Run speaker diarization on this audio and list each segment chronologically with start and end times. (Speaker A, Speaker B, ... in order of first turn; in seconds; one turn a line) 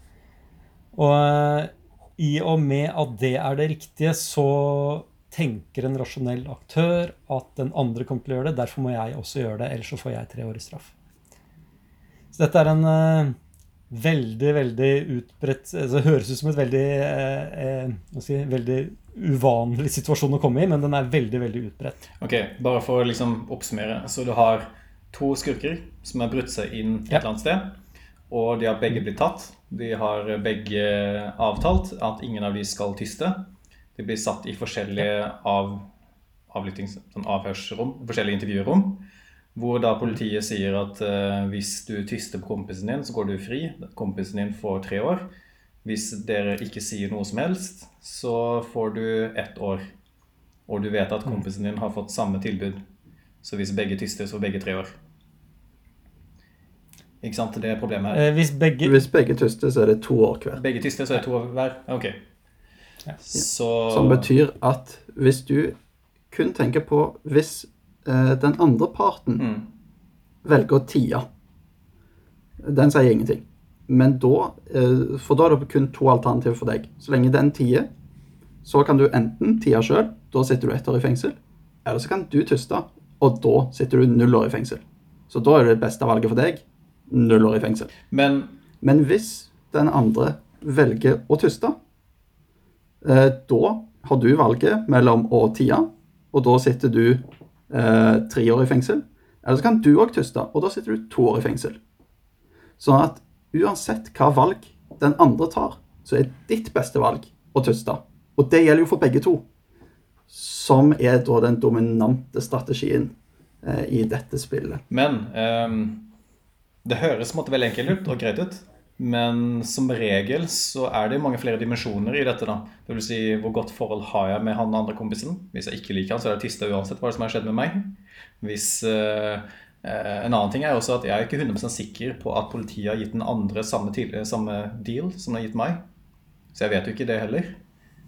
Speaker A: 0.9-10.9
Speaker A: 12.3-13.3
Speaker A: 13.9-22.0
Speaker B: 22.2-27.8
Speaker B: 28.3-35.9
Speaker B: 36.5-45.3
Speaker B: 45.8-49.8
Speaker B: 50.7-52.8
Speaker B: 53.4-54.9
Speaker B: 57.2-58.2
Speaker A: 58.1-59.1
Speaker C: 58.8-60.6
Speaker B: 60.6-62.2
Speaker B: 63.2-64.3
Speaker C: 63.4-65.8
Speaker C: 66.3-69.5
Speaker B: 69.4-69.7
Speaker C: 70.4-71.2
Speaker C: 72.6-77.9
Speaker C: 78.7-87.9
Speaker B: 88.1-88.6
Speaker C: 88.8-91.8
Speaker C: 93.0-101.8
Speaker C: 102.8-109.4
Speaker C: 110.3-114.8
Speaker B: 114.9-116.1
Speaker B: 116.8-135.8
Speaker B: 136.5-137.6